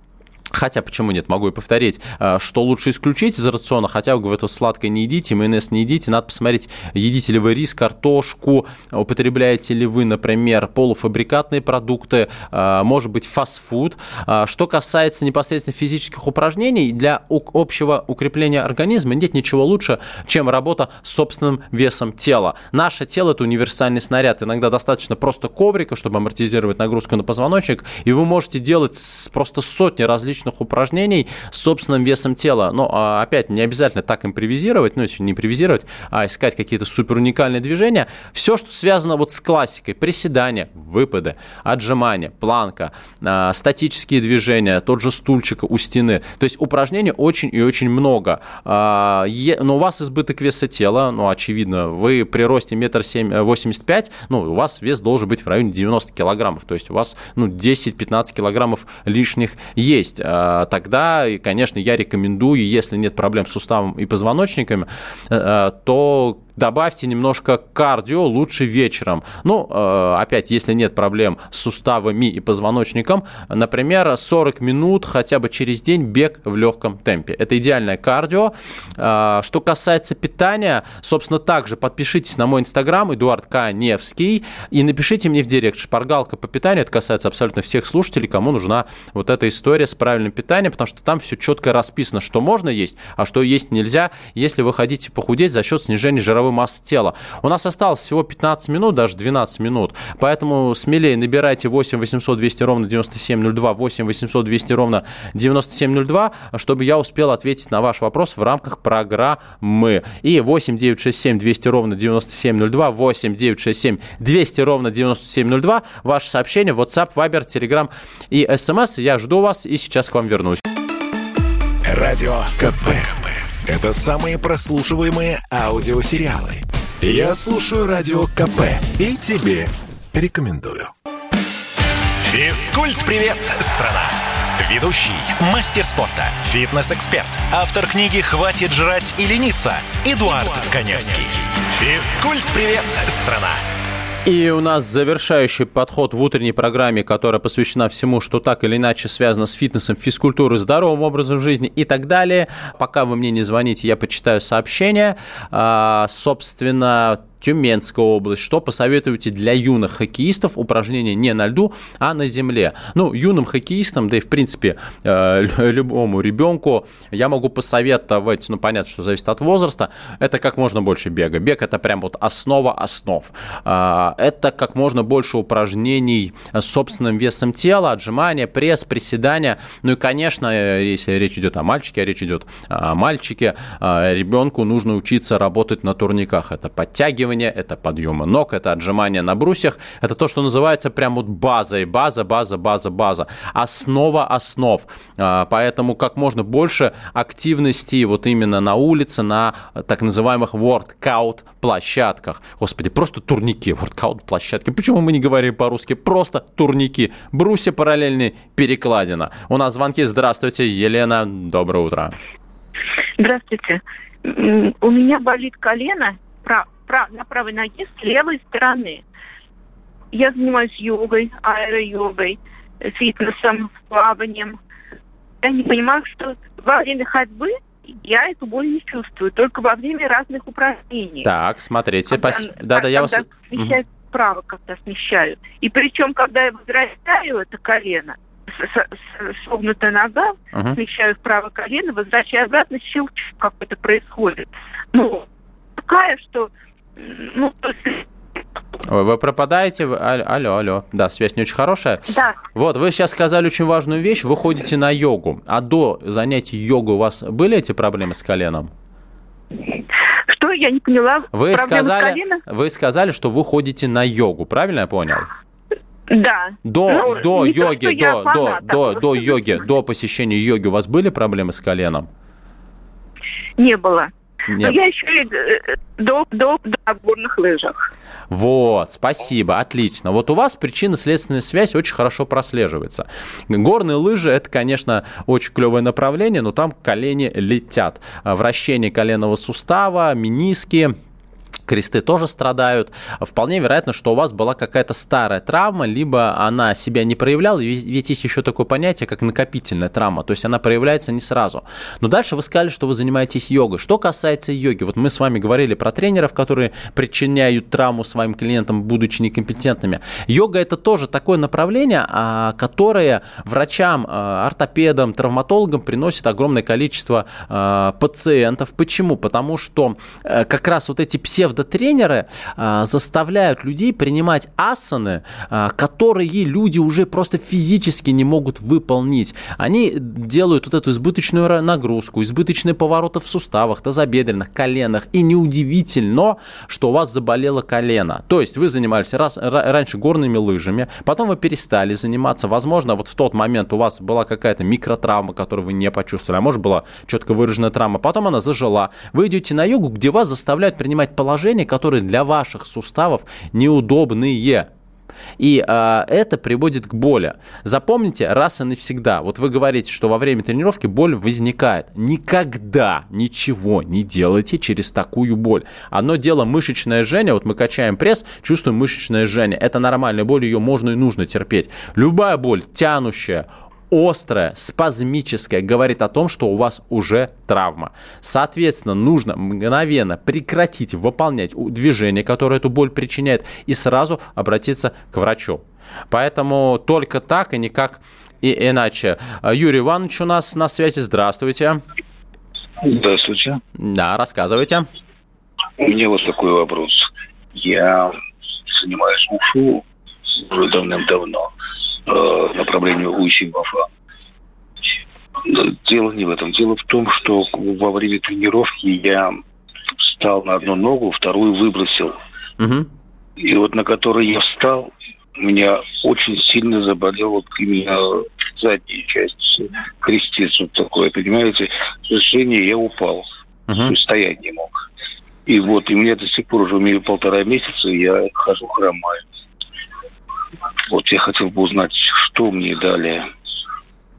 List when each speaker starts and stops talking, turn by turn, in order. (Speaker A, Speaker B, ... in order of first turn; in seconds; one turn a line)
Speaker A: 0.5-120.6
Speaker B: 121.8-130.9
Speaker C: 132.3-143.6
Speaker A: 144.2-212.1
Speaker D: 213.2-219.0
Speaker D: 220.1-224.6
Speaker D: 225.4-231.3
Speaker A: 231.2-233.8
Speaker D: 232.1-245.2
Speaker A: 240.5-240.8
Speaker D: 245.8-248.1
Speaker A: 248.8-258.7
Speaker D: 252.1-252.4
Speaker D: 260.3-262.4
Speaker A: 261.3-265.3
Speaker D: 266.1-269.6
Speaker A: 266.6-272.1
Speaker D: 273.6-277.8
Speaker A: 274.5-274.8
Speaker A: 278.3-290.9
Speaker A: 291.7-354.7
Speaker A: 355.4-391.8
Speaker E: 392.8-393.6
Speaker A: 393.8-394.9
Speaker E: 395.8-398.1
Speaker E: 398.7-399.8
Speaker E: 400.4-401.5
Speaker E: 402.1-403.9
Speaker E: 405.4-409.4
Speaker E: 410.0-412.1
Speaker A: 412.6-412.9
Speaker E: 413.4-423.2
Speaker A: 423.7-423.9
Speaker E: 423.9-424.7
Speaker E: 425.4-429.2
Speaker E: 430.9-433.2